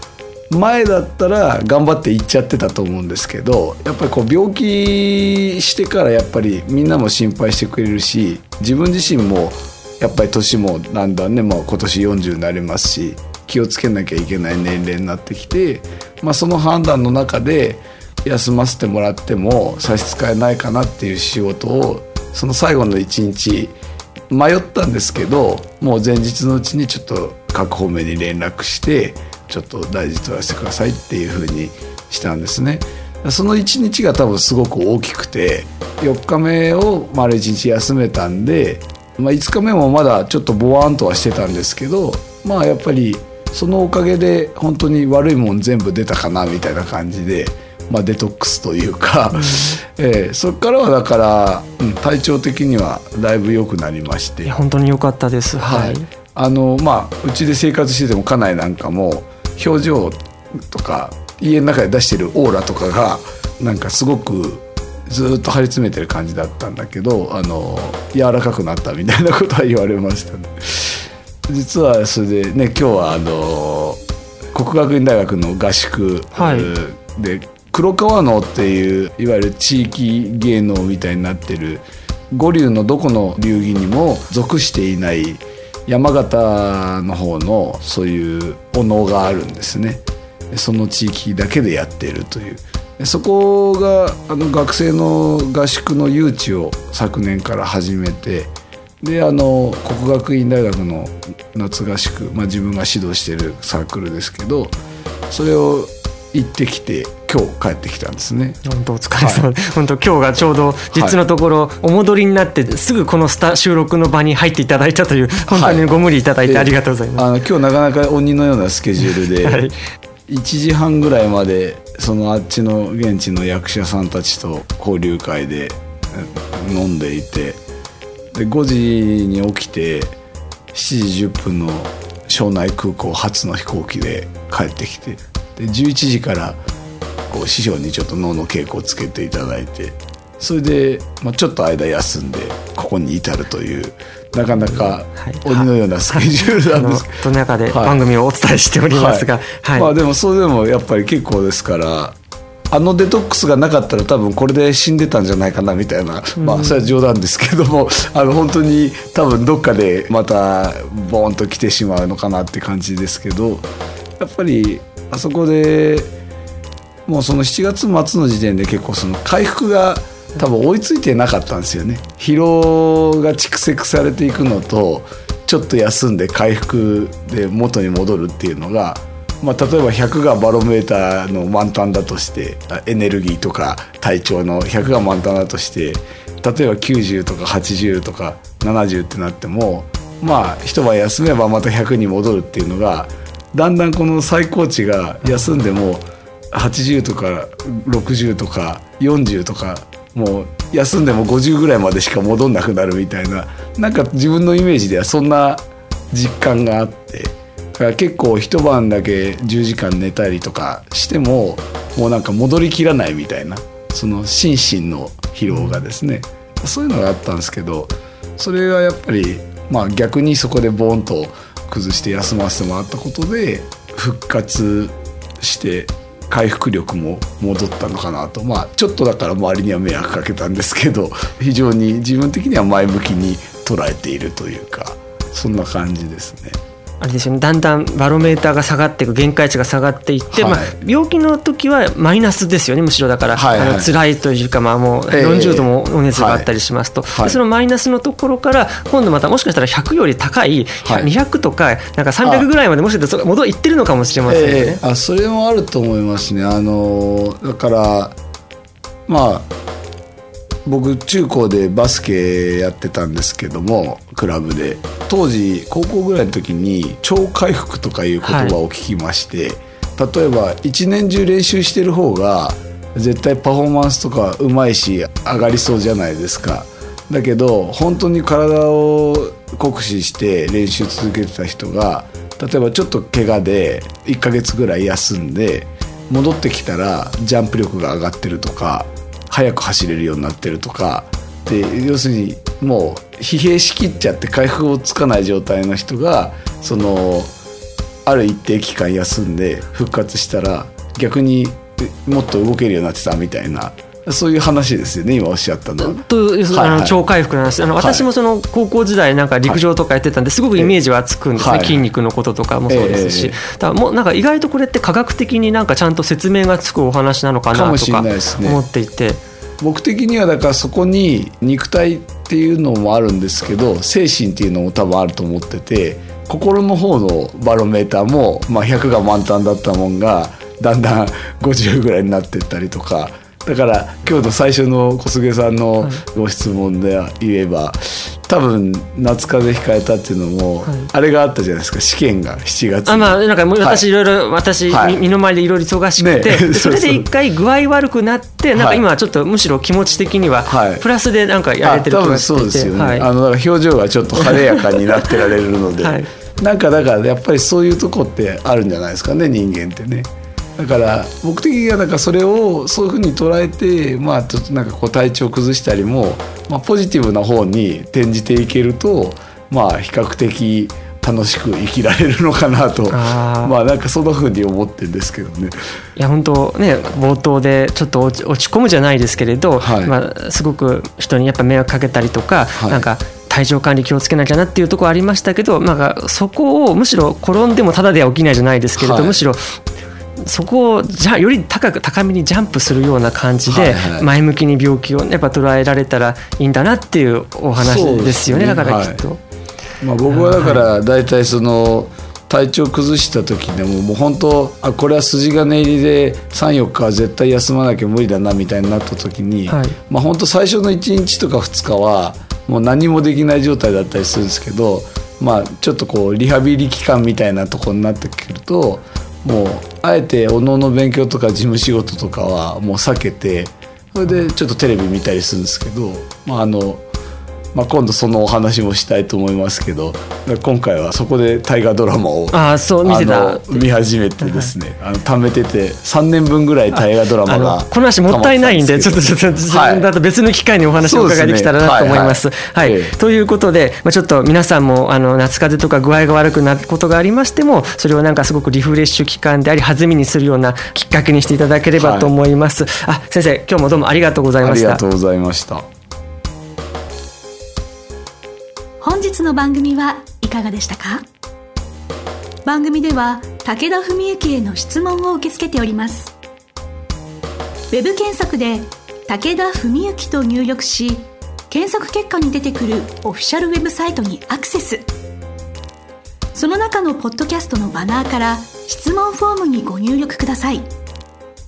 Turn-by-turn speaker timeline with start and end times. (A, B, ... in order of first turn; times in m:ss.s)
0:00.5-0:23.8 A
0:24.3-0:54.6 A
0:49.3-0:49.8 B
0:54.4-0:56.1 B
0:55.6-1:00.2 A
1:00.7-1:14.0 A
1:14.5-1:44.8 A
1:16.4-1:16.7 B
1:45.3-1:48.6 A
1:48.6-1:57.3 B
1:49.2-1:49.5 A
1:50.9-1:51.2 A
1:55.5-1:55.9 A
1:56.4-1:59.7 A
1:59.0-1:59.7 B
2:00.3-2:07.6 A
2:08.3-2:10.2 A
2:10.7-2:16.6 A
2:17.3-2:28.0 A
2:24.6-2:29.9 B
2:28.9-2:32.2 A
2:32.7-2:43.7 A
2:36.4-2:36.9 B
2:44.2-2:46.1 A
2:47.1-3:56.6 A
3:15.2-3:15.6 B
3:35.5-3:35.8 B
3:57.0-4:14.8 B
4:00.3-4:00.7 A
4:03.4-4:03.9 A
4:05.1-4:06.5 A
4:07.1-4:07.4 A
4:10.8-4:11.1 A
4:12.2-4:12.5 A
4:14.3-4:18.2 A
4:19.1-4:19.5 A
4:20.7-4:57.3 A
4:28.2-4:28.6 B
4:58.1-5:07.0 A
5:05.8-5:19.2 B
5:07.8-5:08.1 A
5:11.4-5:11.8 A
5:12.7-5:13.4 A
5:17.5-5:18.6 A
5:19.6-5:43.8 A
5:42.9-5:53.1 B
5:44.7-5:45.0 A
5:46.0-5:47.1 A
5:48.6-5:48.8 A
5:50.5-5:50.9 A
5:51.6-6:15.6 A
5:54.2-5:54.8 B
5:55.8-5:56.1 B
6:12.9-6:13.6 B
6:16.0-6:29.4 B
6:19.6-6:20.0 A
6:22.6-6:22.9 A
6:28.8-6:29.2 A
6:30.2-6:39.2 B
6:33.5-6:34.1 A
6:37.6-6:39.0 A
6:39.8-7:06.8 A
6:40.1-6:40.6 B
6:49.5-6:49.8 B
7:07.5-7:19.9 A
7:12.3-7:14.5 B
7:16.7-7:34.8 B
7:20.8-7:23.0 A
7:31.8-7:32.1 A
7:34.4-7:35.6 A
7:38.8-7:41.1 C
7:42.4-7:46.1 C
7:47.7-7:54.8 C
7:56.4-8:00.6 C